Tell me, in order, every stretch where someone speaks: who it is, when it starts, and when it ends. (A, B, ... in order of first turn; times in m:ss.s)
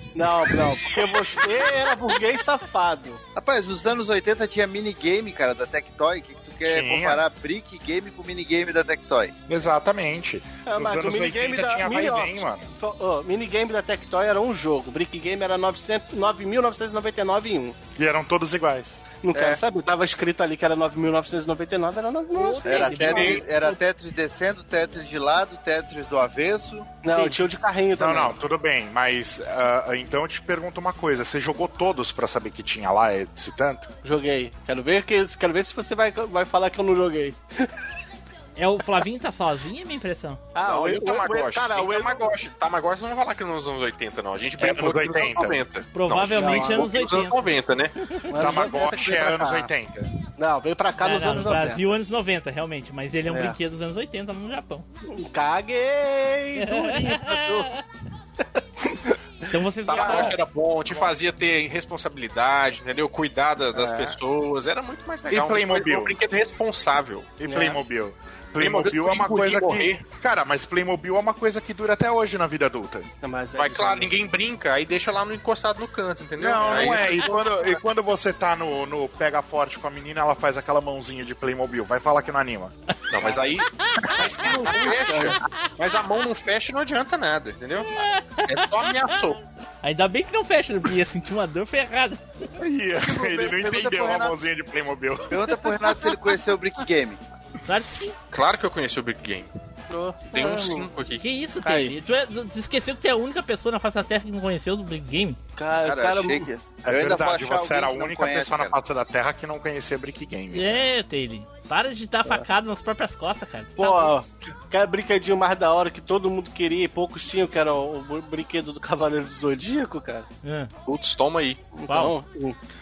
0:00.2-0:03.2 A
0:03.4-0:09.4 B
0:06.6-0:07.2 C
0:09.5-0:12.7 C
0:10.6-0:17.8 A
0:18.0-0:19.0 C
0:19.2-0:23.4 A
0:19.3-0:19.6 B
0:22.3-0:23.8 D
0:22.6-0:26.9 B
0:27.0-0:28.3 A
0:28.0-0:33.9 C
0:34.0-0:37.7 A
0:38.6-0:40.5 D
0:40.6-0:42.3 A
0:40.6-0:47.9 E
0:44.6-0:45.6 C
0:45.9-0:47.6 D
0:46.3-0:46.9 A
0:48.2-0:48.9 D
0:48.3-0:49.7 A
0:48.4-0:50.1 C
0:50.4-0:51.8 A
0:51.0-0:54.9 D
0:53.3-0:53.6 A
0:55.1-0:57.7 A
0:56.6-0:57.8 D
0:58.8-0:59.2 A
0:59.5-1:00.4 D
0:59.9-1:07.4 E
0:59.9-1:00.3 A
1:03.8-1:04.1 A
1:05.3-1:06.2 C
1:07.4-1:13.1 C
1:07.4-1:07.8 A
1:08.6-1:10.0 E
1:13.2-1:14.1 A
1:13.6-1:17.5 E
1:16.4-1:22.7 C
1:23.1-1:27.9 E
1:23.8-1:25.0 D
1:24.9-1:25.4 A
1:27.9-1:29.2 D
1:28.5-1:29.4 E
1:29.8-1:32.2 D
1:32.6-1:35.7 C
1:33.0-1:34.4 B
1:35.3-1:37.2 B
1:37.7-1:38.2 D
1:38.3-1:39.5 E
1:39.9-1:40.9 A
1:40.3-1:41.2 E
1:41.2-1:45.4 D
1:41.6-1:41.9 A
1:45.6-1:46.5 A
1:45.8-1:48.8 B
1:46.9-1:50.9 C
1:50.5-1:54.2 D
1:53.8-2:00.3 A
2:00.4-2:00.7 D
2:00.8-2:01.6 E
2:01.8-2:02.6 A
2:01.9-2:02.2 D